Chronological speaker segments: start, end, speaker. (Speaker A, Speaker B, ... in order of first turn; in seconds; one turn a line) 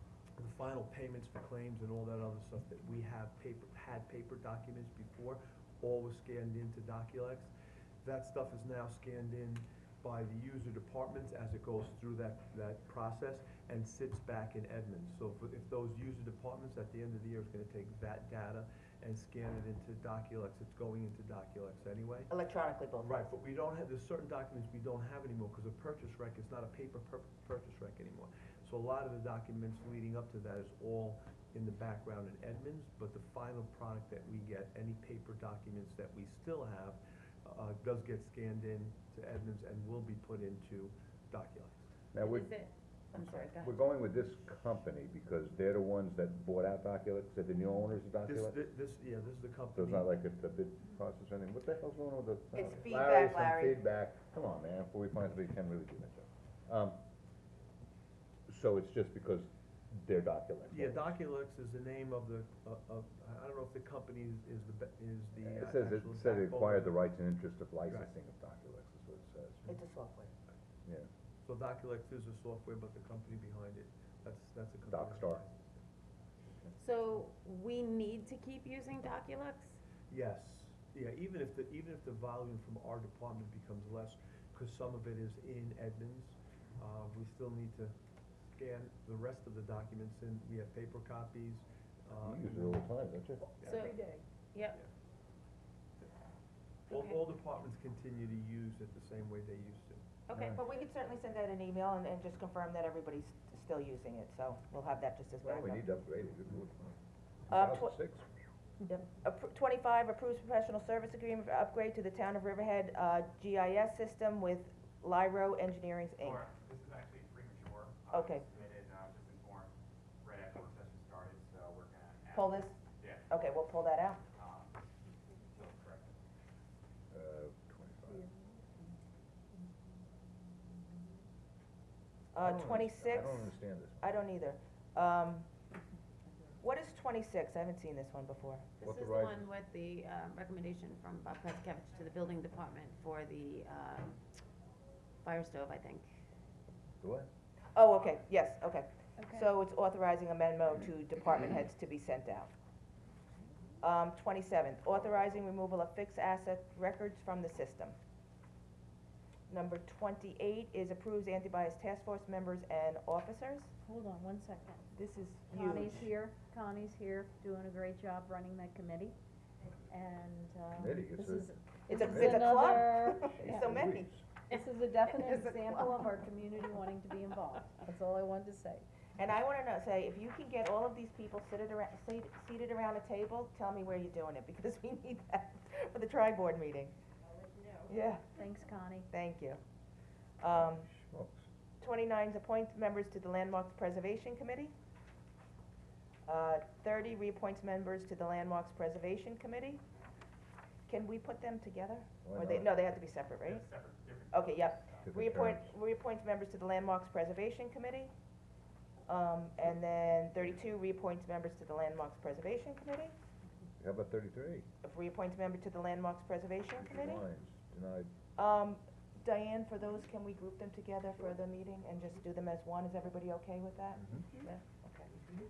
Speaker A: 0.4-7.5
Speaker A: 8.0-22.3
Speaker B: 22.3-23.3
Speaker A: 23.0-41.9
Speaker C: 42.1-42.5
Speaker D: 42.2-43.8
Speaker C: 43.1-48.6
Speaker A: 48.2-50.1
Speaker C: 49.7-57.0
Speaker B: 52.5-53.8
Speaker C: 58.5-61.1
Speaker A: 60.7-67.0
Speaker C: 65.4-69.7
Speaker B: 69.7-70.3
Speaker A: 71.4-75.8
Speaker C: 74.9-75.4
Speaker D: 76.8-79.8
Speaker A: 80.1-87.9
Speaker A: 88.5-92.8
Speaker C: 92.2-93.5
Speaker A: 93.6-93.9
Speaker D: 93.6-94.8
Speaker A: 96.9-100.0
Speaker D: 96.9-97.2
Speaker D: 100.3-100.6
Speaker C: 100.3-100.6
Speaker B: 100.5-105.8
Speaker C: 105.4-106.9
Speaker C: 107.5-108.2
Speaker B: 107.5-107.9
Speaker B: 108.9-116.5
Speaker E: 116.2-123.3
Speaker B: 118.1-118.4
Speaker B: 122.3-124.2
Speaker E: 124.3-124.9
Speaker E: 125.5-126.2
Speaker C: 127.1-128.3
Speaker B: 132.3-135.5
Speaker C: 132.4-134.1
Speaker B: 136.6-138.7
Speaker C: 138.8-139.4
Speaker D: 138.8-144.2
Speaker D: 145.2-146.1
Speaker C: 147.0-147.3
Speaker B: 147.7-152.5
Speaker F: 149.2-149.5
Speaker B: 153.8-158.0
Speaker B: 159.5-163.7
Speaker F: 163.8-164.8
Speaker B: 164.9-166.1
Speaker F: 165.5-169.2
Speaker F: 169.9-173.7
Speaker C: 170.7-172.6
Speaker B: 171.9-174.1
Speaker C: 173.2-174.2
Speaker F: 174.5-178.8
Speaker B: 175.3-175.6
Speaker B: 179.2-186.9
Speaker B: 187.9-188.3
Speaker F: 188.3-189.1
Speaker B: 189.1-189.6
Speaker B: 190.4-190.9
Speaker C: 190.5-191.4
Speaker B: 191.8-194.7
Speaker B: 196.2-199.8
Speaker B: 200.9-203.7
Speaker C: 202.2-202.8
Speaker E: 203.4-205.1
Speaker B: 204.3-208.1
Speaker C: 205.1-205.7
Speaker B: 209.1-213.1
Speaker C: 213.8-214.7
Speaker B: 214.8-217.2
Speaker C: 216.8-218.1
Speaker B: 218.3-225.1
Speaker C: 223.9-224.3